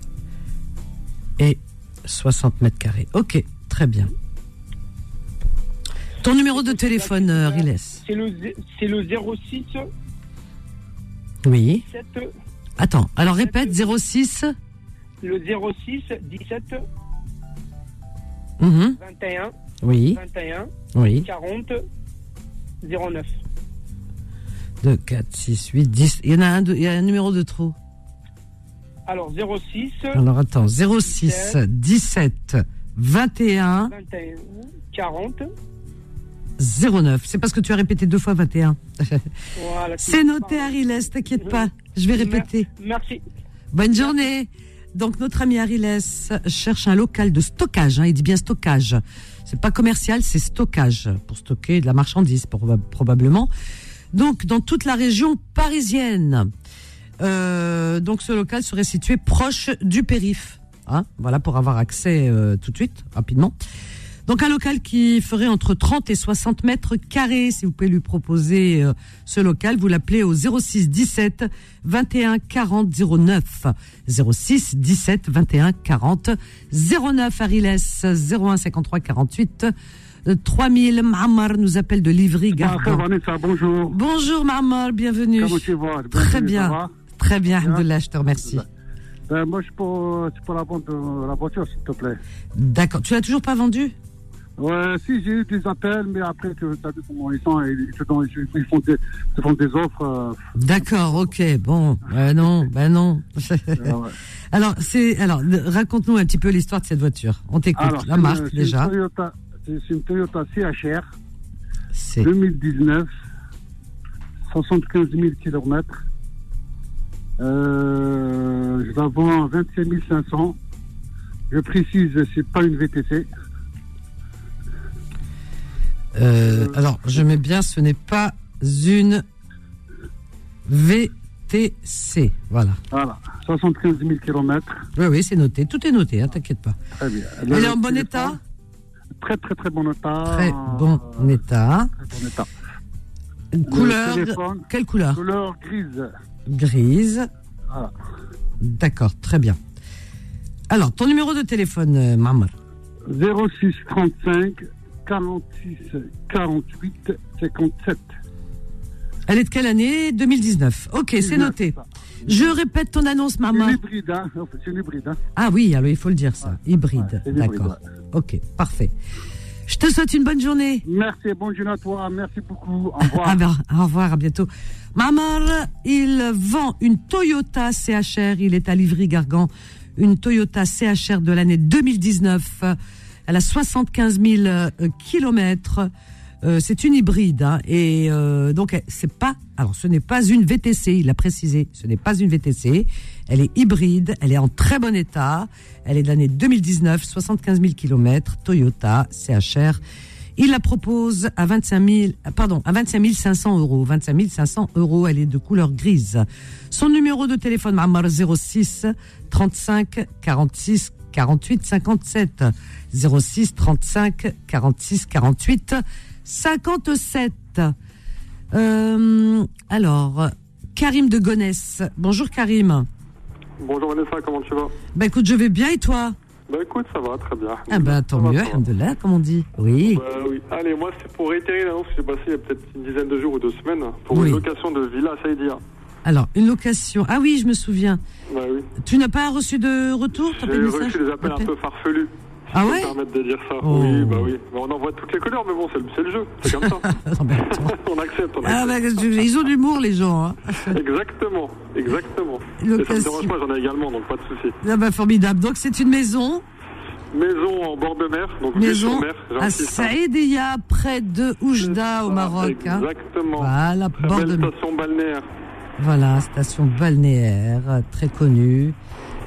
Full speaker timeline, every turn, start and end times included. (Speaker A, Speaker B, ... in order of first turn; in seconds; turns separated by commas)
Speaker A: 1.4-4.1, Speaker A: 6.2-8.0, Speaker B: 6.6-9.9, Speaker A: 11.4-11.8, Speaker B: 11.9-12.3, Speaker A: 12.8-14.5, Speaker B: 13.4-13.9, Speaker B: 15.2-16.8, Speaker A: 18.6-19.0, Speaker B: 18.9-19.6, Speaker A: 19.8-20.2, Speaker B: 20.1-20.7, Speaker A: 20.9-21.3, Speaker B: 21.2-21.8, Speaker B: 22.8-23.4, Speaker A: 24.8-27.8, Speaker B: 29.1-30.2, Speaker A: 30.1-34.0, Speaker B: 31.1-31.6, Speaker B: 33.9-35.4, Speaker A: 36.6-39.2, Speaker B: 39.6-41.2, Speaker A: 40.0-42.7, Speaker B: 42.1-43.2, Speaker A: 43.7-53.5, Speaker A: 54.1-56.5, Speaker A: 57.2-63.5, Speaker A: 64.3-79.7, Speaker A: 80.2-83.0, Speaker C: 82.5-84.0, Speaker A: 83.9-88.7, Speaker C: 85.4-86.9, Speaker C: 87.6-87.9, Speaker C: 89.3-92.2, Speaker A: 92.5-93.9, Speaker C: 94.6-100.8, Speaker A: 100.6-103.9, Speaker C: 103.8-104.1, Speaker A: 104.5-108.9, Speaker C: 107.8-111.1, Speaker A: 112.0-112.3, Speaker C: 112.2-113.1, Speaker C: 114.5-116.0, Speaker C: 117.4-120.6, Speaker C: 121.5-123.3, Speaker A: 126.2-129.2, Speaker A: 130.7-132.8, Speaker C: 132.9-134.9, Speaker A: 135.0-136.8, Speaker C: 137.0-138.4, Speaker A: 137.5-138.4, Speaker C: 139.2-141.2, Speaker A: 140.3-141.9, Speaker C: 142.0-142.5, Speaker A: 143.5-145.2, Speaker C: 143.7-144.6, Speaker C: 145.1-146.1, Speaker A: 146.5-147.3, Speaker A: 148.6-149.6, Speaker A: 150.7-152.5, Speaker C: 153.1-158.1, Speaker A: 159.3-161.7, Speaker C: 161.2-161.8, Speaker A: 162.3-163.8, Speaker C: 163.5-165.2, Speaker A: 165.4-168.9, Speaker C: 166.4-167.8, Speaker A: 169.7-170.8, Speaker C: 170.8-173.4, Speaker A: 173.0-182.8, Speaker A: 183.3-185.9, Speaker A: 186.4-199.8, Speaker A: 200.4-217.7, Speaker A: 218.5-222.9, Speaker D: 223.6-224.7, Speaker A: 224.9-226.2, Speaker D: 226.5-228.6, Speaker A: 227.7-230.0, Speaker D: 229.9-235.6, Speaker A: 234.1-234.4, Speaker A: 236.1-238.0, Speaker D: 238.3-238.7, Speaker A: 238.8-241.5, Speaker D: 240.4-246.9, Speaker A: 242.5-242.9, Speaker A: 243.6-244.3, Speaker A: 246.6-247.8, Speaker D: 247.5-248.8, Speaker A: 248.4-250.8, Speaker D: 250.7-254.6, Speaker A: 252.6-253.3, Speaker A: 254.6-256.4, Speaker D: 257.1-259.9, Speaker A: 258.5-264.5, Speaker D: 261.6-265.3, Speaker A: 265.8-268.8